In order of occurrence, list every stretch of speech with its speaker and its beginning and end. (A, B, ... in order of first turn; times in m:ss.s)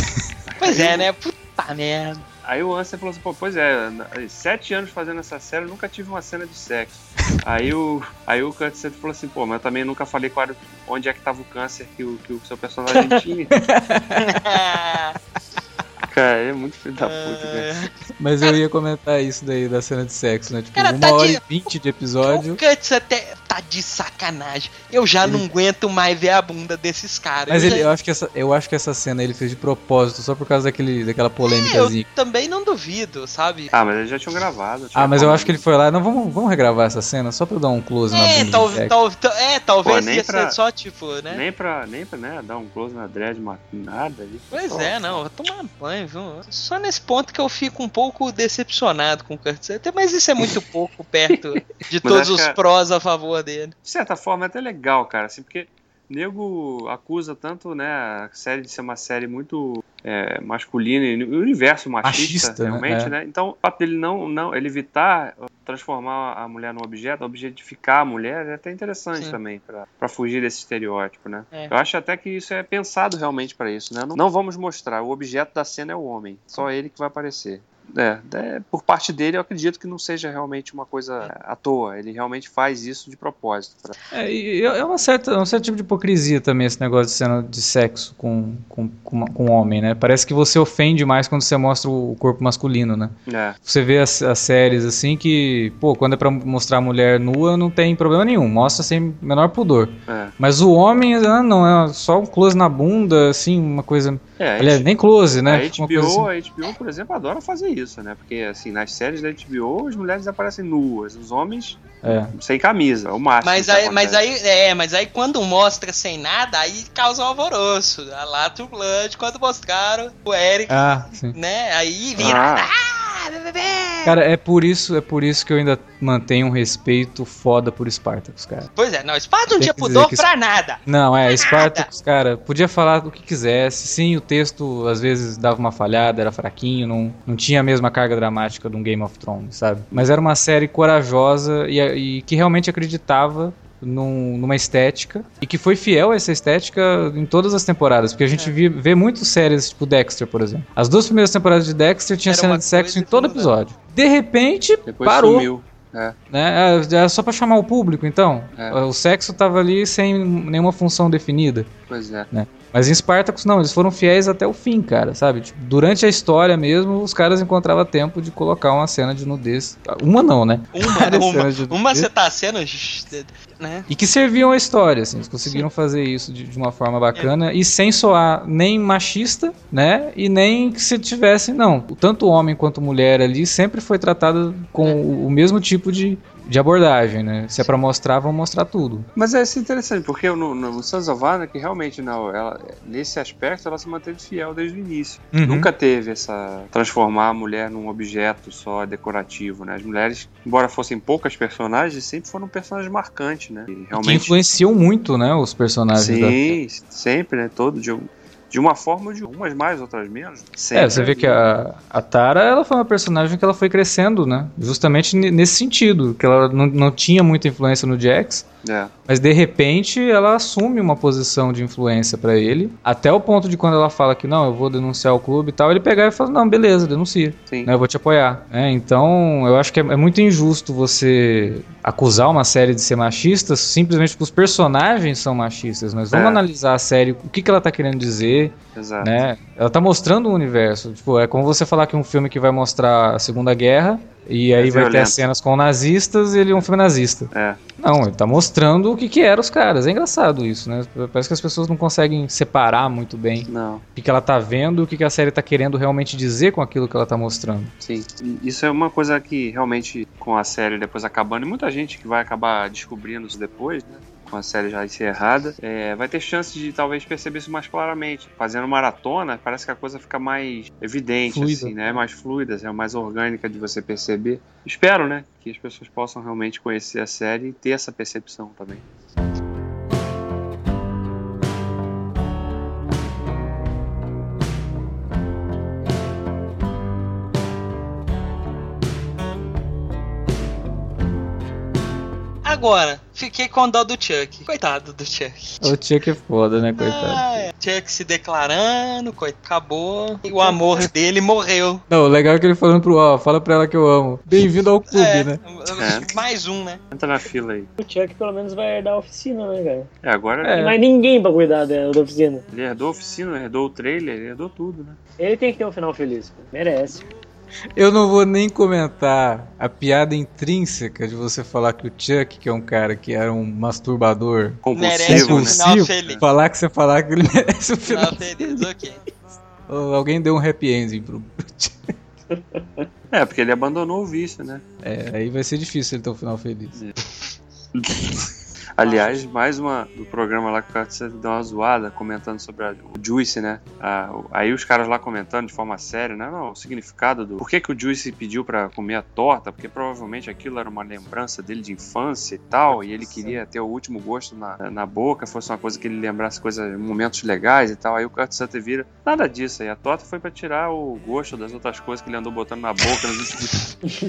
0:00.4-0:01.1 A
0:00.6-0:02.2 B
0:02.4-0:13.6 A
0:12.9-0:13.2 C
0:13.6-0:14.4 D
0:14.2-0:15.2 B
0:16.0-0:17.7 A
0:17.0-0:17.9 B
0:18.2-0:22.6 D
0:20.7-0:21.4 B
0:22.2-0:27.9 B
0:27.5-0:32.0 D
0:31.4-0:33.7 B
0:33.7-0:35.6 A
0:34.9-0:38.9 D
0:38.1-0:41.4 B
0:39.8-0:40.6 A
0:41.3-0:45.2 A
0:44.5-0:53.7 B
0:51.3-0:52.6 A
0:53.8-1:23.9 A
1:02.0-1:03.1 D
1:24.1-1:33.1 D
1:33.3-1:33.6 A
1:33.6-1:46.3 D
1:40.1-1:40.3 A
1:44.4-1:44.9 A
1:45.4-1:54.2 A
1:52.0-1:52.3 D
1:53.4-2:04.1 B
2:00.7-2:01.4 D
2:02.2-2:02.7 A
2:04.0-2:08.7 D
2:08.8-2:11.9 B
2:09.6-2:10.2 D
2:10.8-2:35.5 D
2:32.3-2:33.6 B
2:34.8-2:36.2 A
2:36.3-2:41.7 D
2:41.9-2:42.3 A
2:42.3-2:52.1 D
2:50.7-2:53.9 B
2:53.9-3:09.1 D
3:09.2-3:24.4 A
3:15.3-3:15.7 D
3:23.9-3:26.6 D
3:25.9-3:31.4 A
3:30.7-3:38.4 D
3:38.6-3:38.9 A
3:39.1-4:17.7 D
3:56.1-3:56.4 A
3:58.7-3:59.1 A
4:04.6-4:05.2 A
4:07.3-4:07.6 A
4:13.5-4:13.8 A
4:17.8-4:38.8 A
4:31.3-4:31.8 D
4:52.4-4:55.7 B
4:55.6-4:57.5 D
4:56.8-5:01.8 B
5:01.9-5:05.4 D
5:04.9-5:06.8 B
5:05.8-5:06.1 A
5:06.9-5:07.7 A
5:07.8-5:09.9 C
5:10.0-5:10.6 A
5:10.4-5:10.8 D
5:10.5-5:12.4 C
5:12.5-5:15.0 A
5:15.2-5:17.1 C
5:17.8-5:28.7 D
5:24.6-5:26.2 A
5:24.7-5:26.2 B
5:27.9-5:29.0 B
5:29.7-5:31.9 D
5:33.1-5:34.6 A
5:34.8-5:36.8 D
5:37.7-6:03.7 A
5:38.8-5:39.2 B